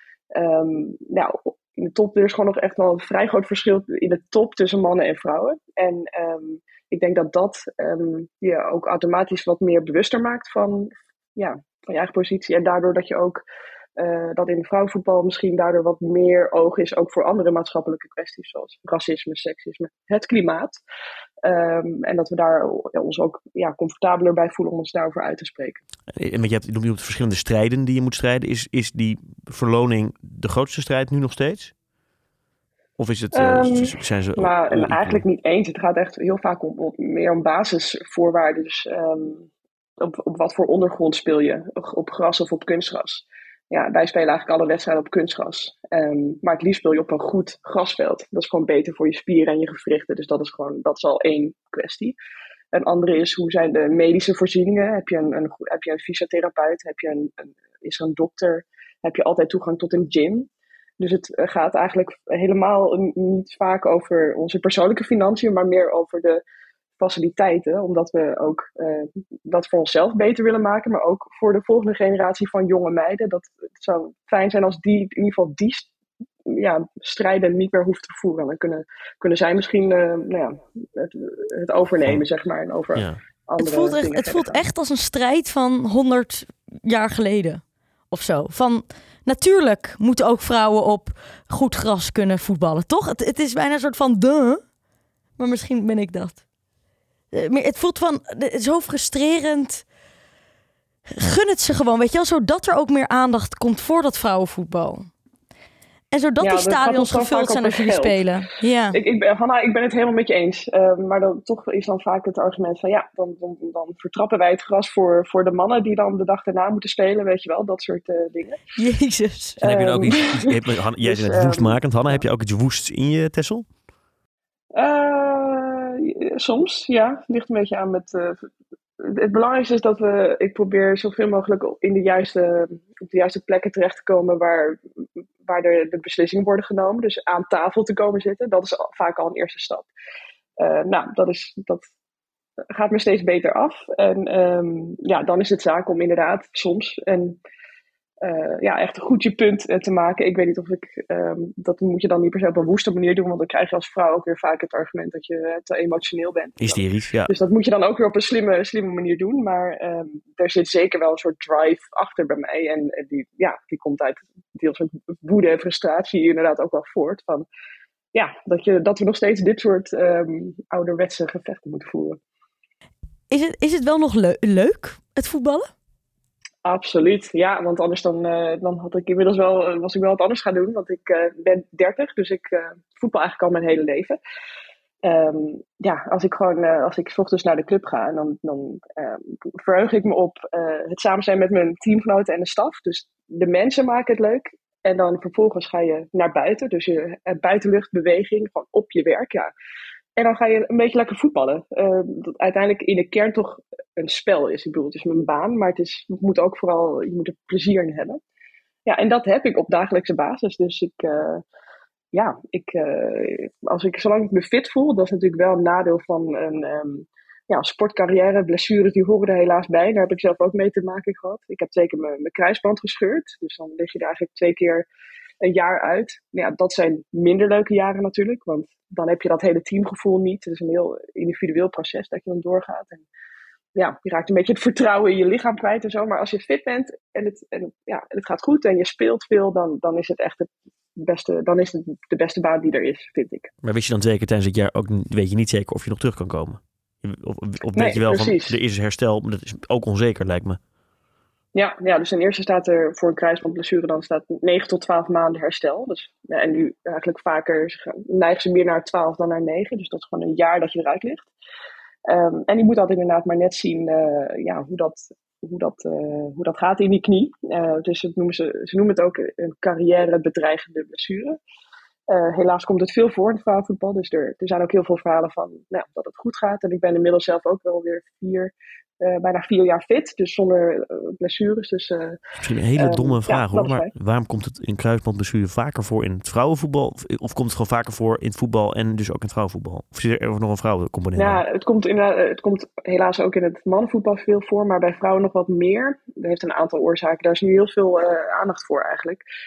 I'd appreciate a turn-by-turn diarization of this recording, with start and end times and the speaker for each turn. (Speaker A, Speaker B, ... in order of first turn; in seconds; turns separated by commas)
Speaker A: 0.3-13.4, Speaker A: 14.0-20.8, Speaker A: 21.4-25.8, Speaker B: 26.1-31.7, Speaker B: 33.0-35.2, Speaker A: 33.3-52.1, Speaker A: 52.7-60.5, Speaker A: 61.0-66.4, Speaker A: 67.0-75.9, Speaker A: 76.5-84.7, Speaker C: 83.6-94.6, Speaker C: 95.4-96.4, Speaker C: 97.3-99.8, Speaker C: 101.1-105.1, Speaker C: 106.1-109.0, Speaker A: 106.4-108.3, Speaker A: 108.9-118.6, Speaker C: 118.8-120.1, Speaker B: 119.6-123.7, Speaker A: 119.6-122.2, Speaker A: 124.7-134.8, Speaker A: 135.4-139.9, Speaker A: 140.6-141.8, Speaker A: 142.7-147.4, Speaker A: 148.2-167.4, Speaker B: 156.6-157.3, Speaker A: 168.1-172.2, Speaker C: 173.3-175.7, Speaker A: 176.6-184.2, Speaker A: 185.0-199.5, Speaker A: 200.2-208.2, Speaker A: 208.8-211.4, Speaker A: 212.1-224.8, Speaker A: 225.4-233.0, Speaker A: 233.8-243.5, Speaker B: 243.6-250.6, Speaker A: 247.8-248.6, Speaker A: 251.5-261.3, Speaker A: 262.1-271.4, Speaker A: 272.1-282.2, Speaker B: 282.4-291.4, Speaker A: 282.8-283.9, Speaker A: 291.1-299.2